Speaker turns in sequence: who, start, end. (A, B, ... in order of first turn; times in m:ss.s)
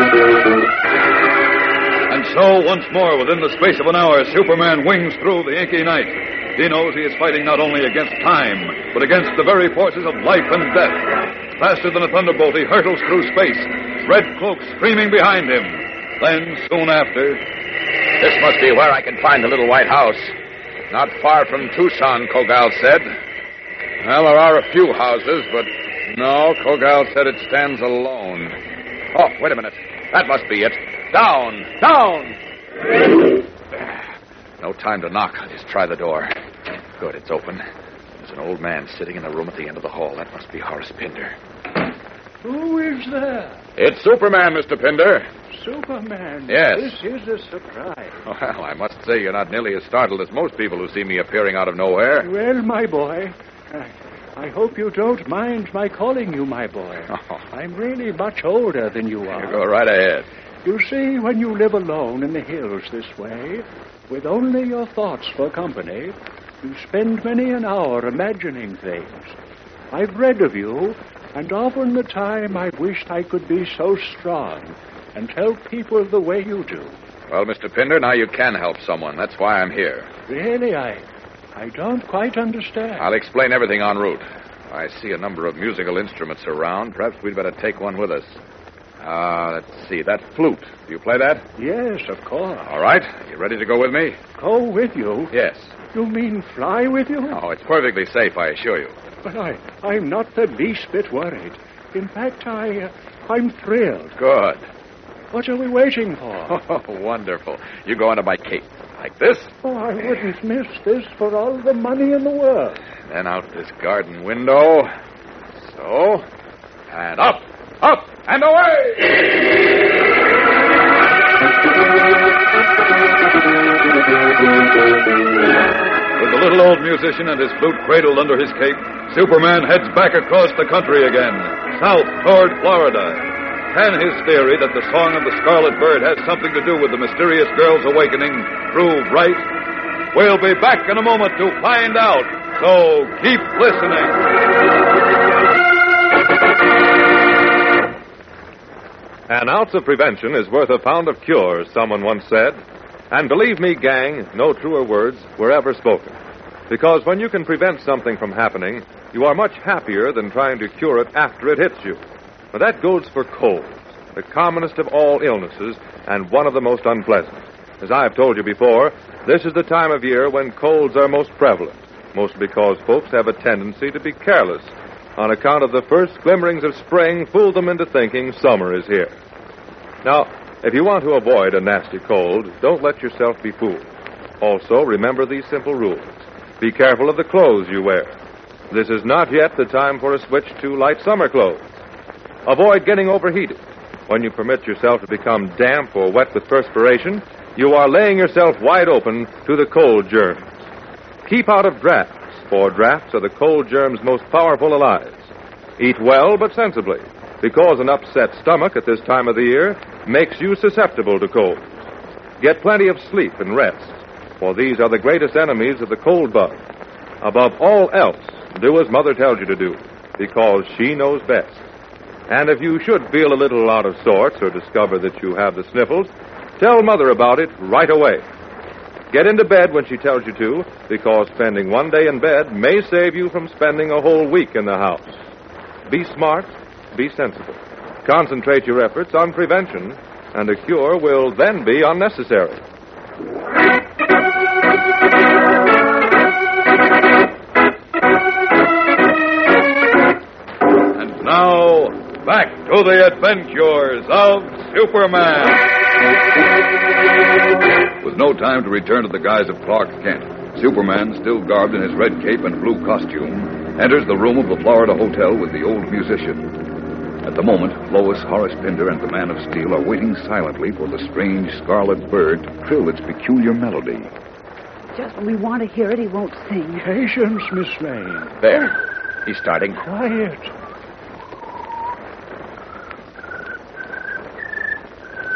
0:02.1-0:17.4 A
0:18.2-0:20.3 B
0:20.9-0:23.1 B
0:24.0-0:28.6 B
0:29.1-0:32.4 B
0:34.6-0:36.3 B
0:37.0-0:37.6 B
0:38.2-0:41.4 B
0:42.4-0:43.6 C
0:43.8-0:45.3 B
0:45.5-0:48.2 C
0:46.5-0:47.0 B
0:48.2-0:52.3 B
0:52.2-0:59.6 C
0:57.1-0:57.4 B
0:59.3-1:00.3 B
1:00.6-1:09.4 C
1:09.9-1:17.0 C
1:17.3-1:20.1 B
1:20.3-1:21.0 C
1:21.6-1:23.0 C
1:23.0-1:28.4 B
1:29.0-1:31.4 B
1:31.6-1:32.8 C
1:32.7-1:34.2 B
1:34.4-1:35.3 C
1:35.3-1:35.7 B
1:35.9-1:37.4 C
1:37.3-1:39.0 B
1:39.2-1:44.2 C
1:44.2-1:44.6 B
1:45.3-1:46.5 C
1:46.5-1:49.5 B
1:49.6-1:52.8 C
1:53.1-1:54.9 B
1:55.6-1:56.2 B
1:56.9-1:59.3 B
2:06.2-2:19.5 A
2:20.1-2:24.3 A
2:29.3-2:36.2 D
2:36.7-2:42.0 D
2:42.5-2:59.1 D
3:00.0-3:03.9 D
3:04.4-3:08.2 D
3:08.7-3:11.6 D
3:12.5-3:20.4 D
3:21.3-3:25.3 D
3:25.8-3:31.6 D
3:32.4-3:36.6 D
3:37.2-3:41.6 D
3:42.3-3:48.2 D
3:49.1-3:55.2 D
3:55.9-4:02.6 D
4:10.9-4:15.7 A
4:18.0-4:26.6 A
4:27.2-4:34.1 A
4:34.9-4:36.9 E
4:36.8-4:38.4 C
4:38.4-4:39.8 B
4:39.8-4:40.5 C